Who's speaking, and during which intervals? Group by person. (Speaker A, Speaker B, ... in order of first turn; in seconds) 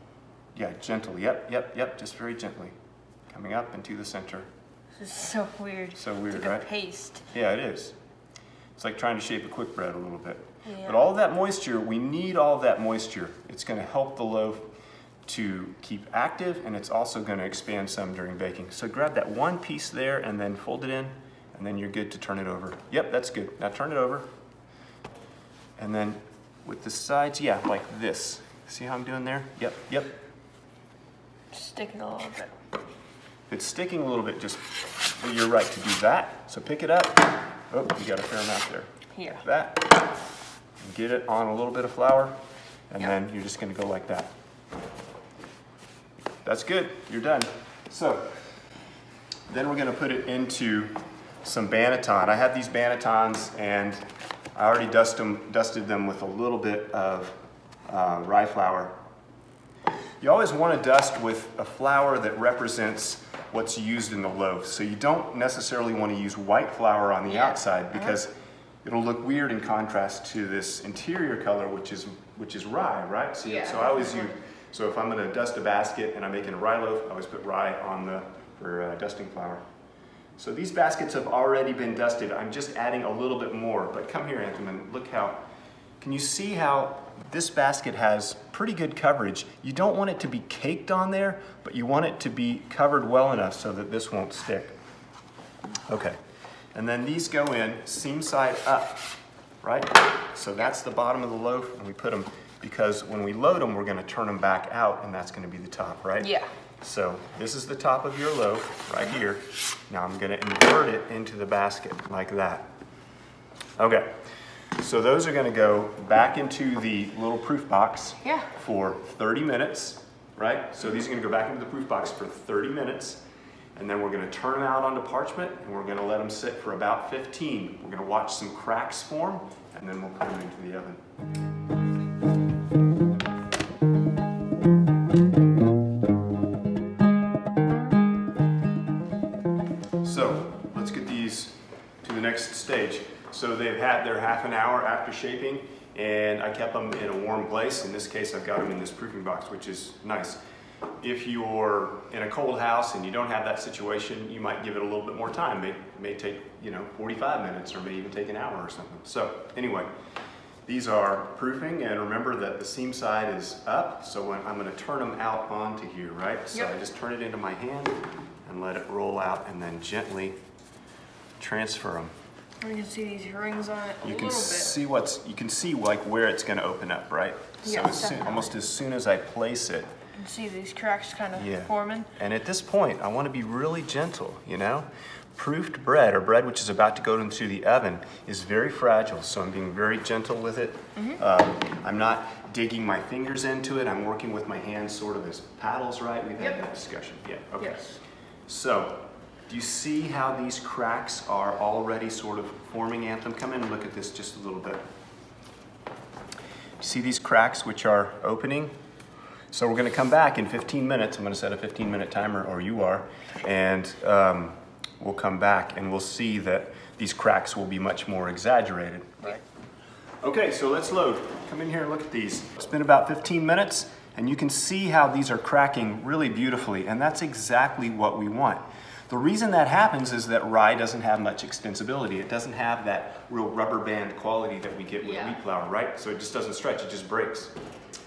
Speaker A: 0.5-2.8, 3.3-4.5, 5.9-6.7, 7.3-8.0, 8.8-14.7, 15.2-24.3, 25.8-30.1, 33.5-40.0, 40.8-42.3, 42.9-44.3, 46.4-48.3, 49.5-54.0, 54.5-57.3, 57.9-58.9, 60.2-68.3, 68.8-79.6, 80.4-85.4, 86.0-94.8, 95.9-96.2, 96.7-99.1, 99.6-112.7, 113.8-114.1, 114.8-123.2, 123.8-131.0, 140.0-150.4, 151.0-159.9, 160.7-170.4, 171.4-172.1, 174.0-179.9, 181.3-204.8, 206.8-208.7, 209.5-219.4, 220.2-237.5
Speaker B: 5.0-7.3, 10.7-11.0, 31.5-32.5, 39.1-39.4, 67.3-68.1, 73.4-74.3, 106.2-106.5, 118.2-118.5, 172.6-174.8, 177.6-178.5, 180.2-182.1, 196.4-196.7, 197.6-197.9, 235.0-235.4